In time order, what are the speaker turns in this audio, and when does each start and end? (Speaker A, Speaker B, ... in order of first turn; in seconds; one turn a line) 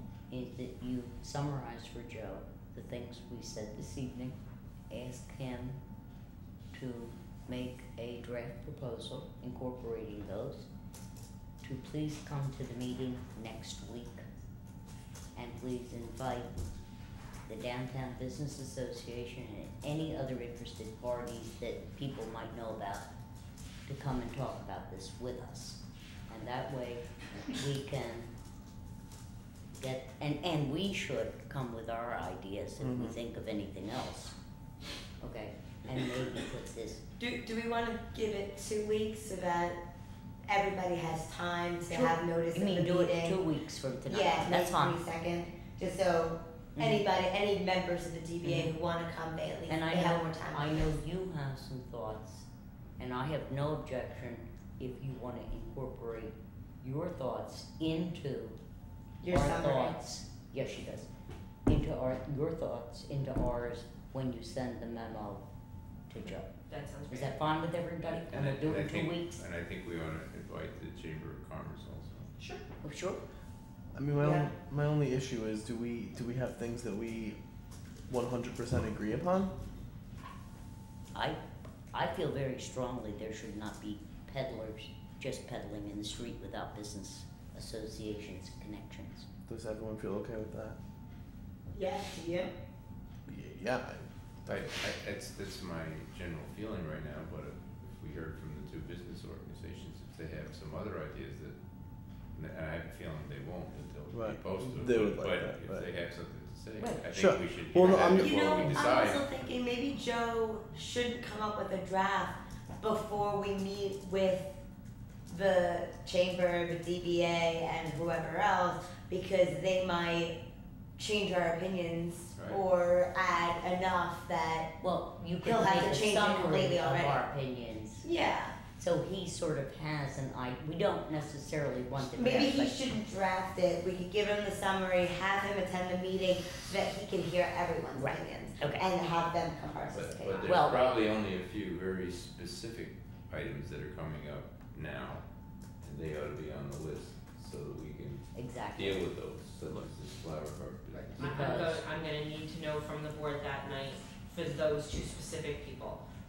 Speaker A: 0.3-4.4
Speaker A: 4.9-5.8
Speaker A: 6.7-10.7
Speaker A: 11.6-14.2
Speaker A: 15.3-16.5
Speaker A: 17.5-23.1
Speaker A: 23.9-28.3
Speaker A: 29.8-34.3
Speaker B: 32.8-33.1
Speaker A: 35.2-37.0
Speaker C: 37.2-39.8
Speaker C: 40.5-43.4
Speaker A: 41.9-45.0
Speaker C: 44.1-51.0
Speaker A: 46.8-47.0
Speaker A: 48.4-48.7
Speaker A: 49.7-52.5
Speaker A: 53.0-58.6
Speaker C: 59.2-60.0
Speaker A: 59.3-61.1
Speaker A: 61.7-65.4
Speaker A: 66.1-66.5
Speaker D: 66.7-67.4
Speaker A: 67.1-69.3
Speaker E: 68.0-72.3
Speaker A: 72.8-73.2
Speaker B: 73.9-77.4
Speaker C: 74.2-74.5
Speaker B: 78.1-79.5
Speaker A: 81.1-81.4
Speaker A: 81.9-89.3
Speaker B: 89.5-90.8
Speaker C: 91.7-92.5
Speaker B: 93.3-94.7
Speaker E: 94.5-101.6
Speaker E: 102.3-109.3
Speaker B: 104.1-105.9
Speaker A: 106.8-107.1
Speaker B: 107.1-108.3
Speaker C: 107.8-114.6
Speaker A: 108.5-108.9
Speaker C: 115.3-120.4
Speaker C: 121.0-124.8
Speaker A: 124.8-128.1
Speaker C: 125.4-127.2
Speaker C: 128.0-128.6
Speaker A: 128.8-132.9
Speaker C: 132.1-140.6
Speaker A: 137.9-138.8
Speaker E: 139.9-145.2
Speaker D: 140.3-140.9
Speaker A: 140.4-140.8
Speaker E: 145.8-151.8
Speaker A: 148.3-149.1
Speaker A: 151.2-151.8
Speaker D: 151.2-156.0